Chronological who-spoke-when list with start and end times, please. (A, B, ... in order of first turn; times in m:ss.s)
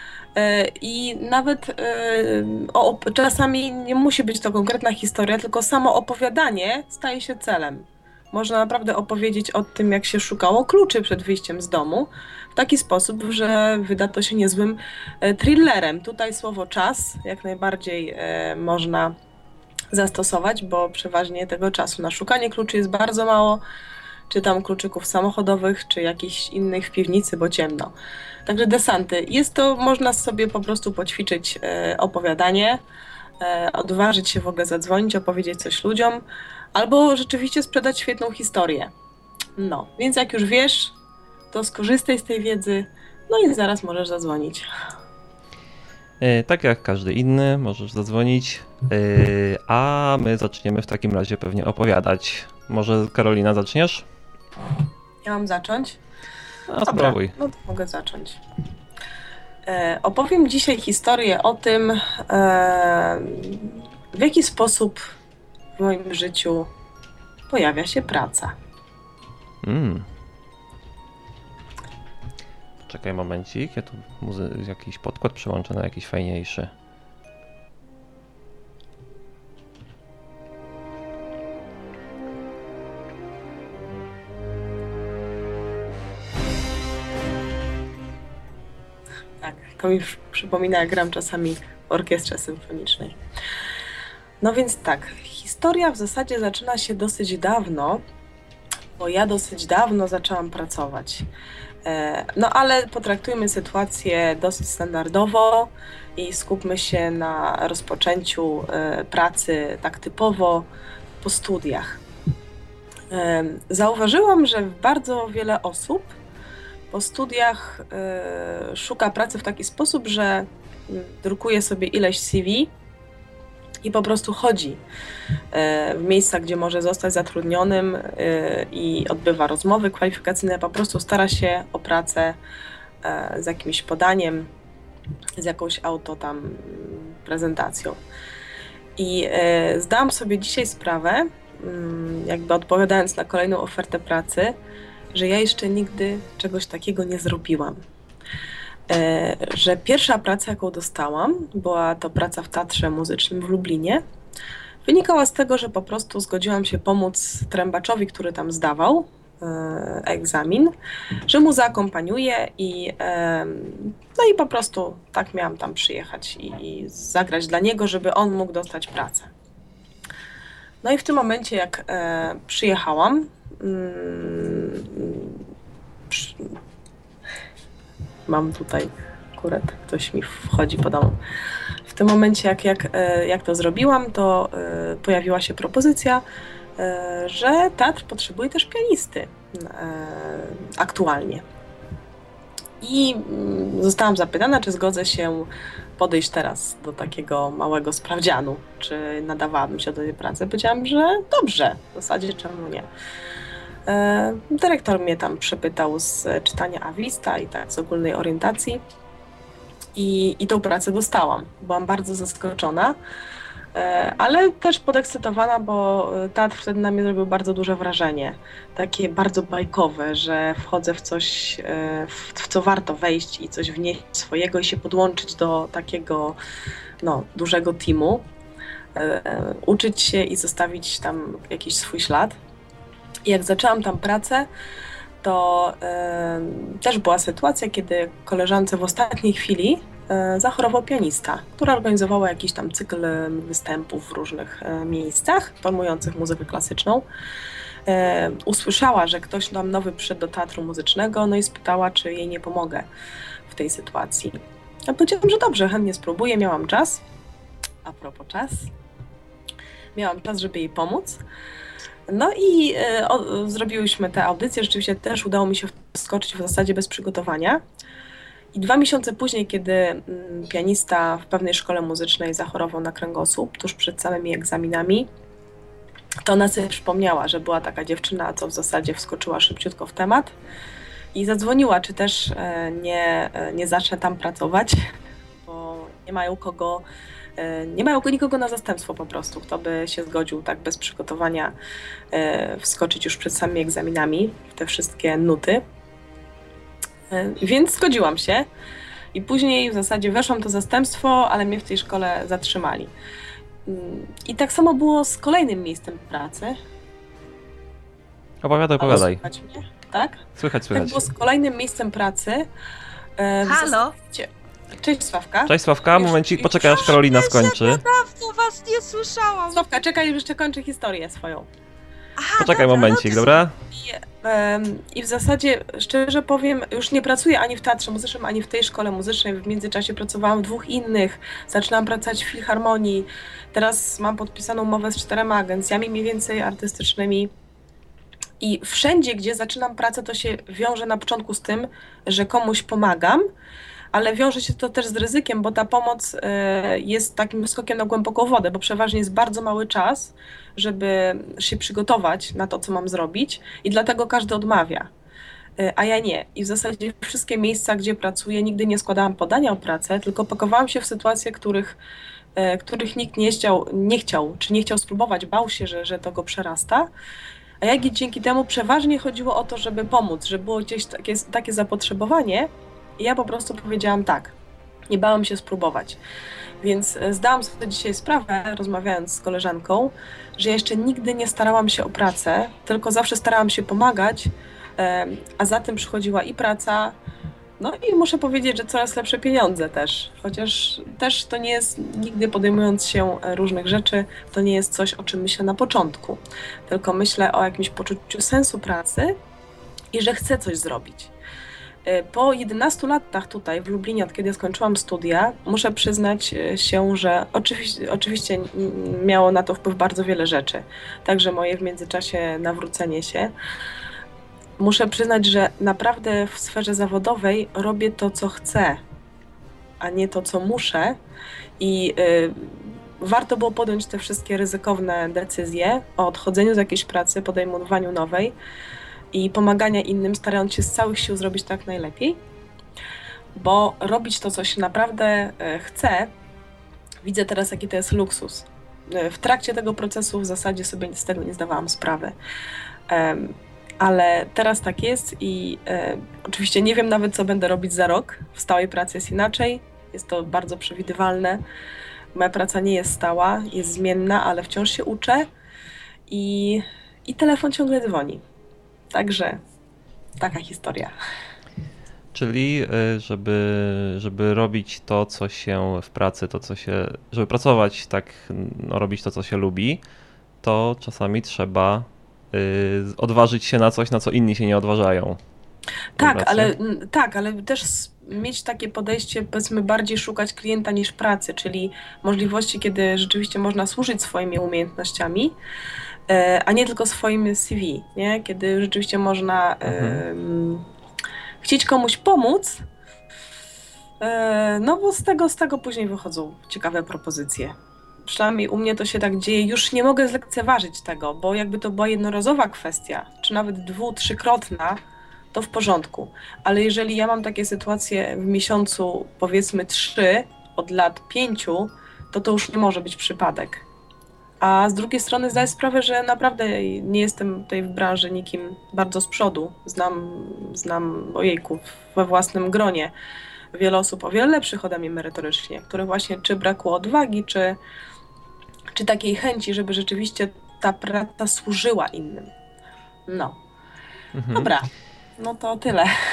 0:00.4-0:19.2 A
0:19.9-0:23.6 A
0:24.3-0:27.9 A
0:28.5-0:32.8 A
0:33.4-0:36.2 A
0:36.8-0:38.9 A
0:39.6-0:40.9 A
0:41.5-0:44.7 A
0:46.2-0:54.1 B
0:55.2-0:56.0 A
0:56.7-0:57.3 B
0:56.8-0:58.4 A
0:59.7-1:05.0 A
1:05.8-1:06.7 A
1:07.5-1:08.6 A
1:09.6-1:10.1 B
1:12.9-1:16.7 B
1:29.4-1:33.2 A
1:34.4-1:38.0 A
1:39.0-1:41.3 A
1:41.8-1:50.7 A
1:51.2-1:52.0 A
1:53.1-1:56.2 A
1:56.9-2:02.7 A
2:03.8-2:04.8 A
2:05.5-2:12.4 A
2:13.0-2:14.5 A
2:15.4-2:18.0 A
2:19.0-2:24.6 A
2:25.1-2:27.8 A
2:28.9-2:34.0 A
2:34.8-2:40.7 A
2:41.3-2:49.3 A
2:50.8-2:55.4 A
2:56.1-2:56.5 A
2:58.3-3:01.2 A
3:01.9-3:06.2 A
3:06.8-3:11.4 A
3:12.8-3:22.9 A
3:23.9-3:28.8 A
3:30.0-3:33.0 A
3:33.8-3:46.4 A
3:47.0-3:48.2 A
3:49.0-3:52.4 A
3:53.3-3:54.5 A
3:55.2-4:07.0 A
4:07.9-4:12.9 A
4:13.5-4:17.0 A
4:17.8-4:18.7 A
4:20.0-4:21.2 A
4:22.1-4:27.6 A
4:28.5-4:35.1 A
4:36.2-4:40.4 A
4:41.1-4:44.8 A
4:45.4-4:46.8 A
4:47.4-4:51.5 A
4:52.1-4:55.6 A
4:57.1-4:58.5 A
4:59.1-5:02.9 A
5:03.7-5:06.6 A
5:08.4-5:09.2 B
5:08.8-5:12.5 A
5:10.4-5:11.1 B
5:13.2-5:16.9 A
5:13.4-5:14.0 C
5:15.5-5:17.8 B
5:16.6-5:19.6 C
5:19.5-5:21.5 A
5:22.2-5:23.4 C
5:22.4-5:23.5 B
5:23.7-5:37.3 A
5:38.4-5:43.3 A
5:43.9-5:54.9 A
5:55.6-6:01.8 A
6:02.4-6:06.9 A
6:07.6-6:14.4 A
6:14.9-6:16.0 A
6:16.6-6:27.0 A
6:27.6-6:39.2 A
6:39.9-6:41.1 A
6:41.8-6:53.3 A
6:54.6-6:58.8 A
6:59.8-7:01.0 A
7:01.6-7:08.4 A
7:09.1-7:12.2 A
7:13.4-7:16.1 A
7:17.0-7:22.2 A
7:22.9-7:31.4 A
7:32.2-7:35.3 A
7:36.1-7:38.2 A
7:38.9-7:39.4 A
7:40.2-7:40.9 A
7:42.1-7:49.8 B
7:50.4-7:55.2 B
7:56.0-8:05.4 A
7:56.0-7:56.5 B
8:06.1-8:10.6 A
8:09.7-8:10.0 B
8:11.4-8:12.6 A
8:14.0-8:24.8 A
8:25.3-8:33.6 A
8:34.4-8:42.9 A
8:43.5-8:47.6 A
8:48.8-8:52.3 A
8:53.1-8:53.4 A
8:54.2-8:54.5 B
8:54.3-8:55.9 A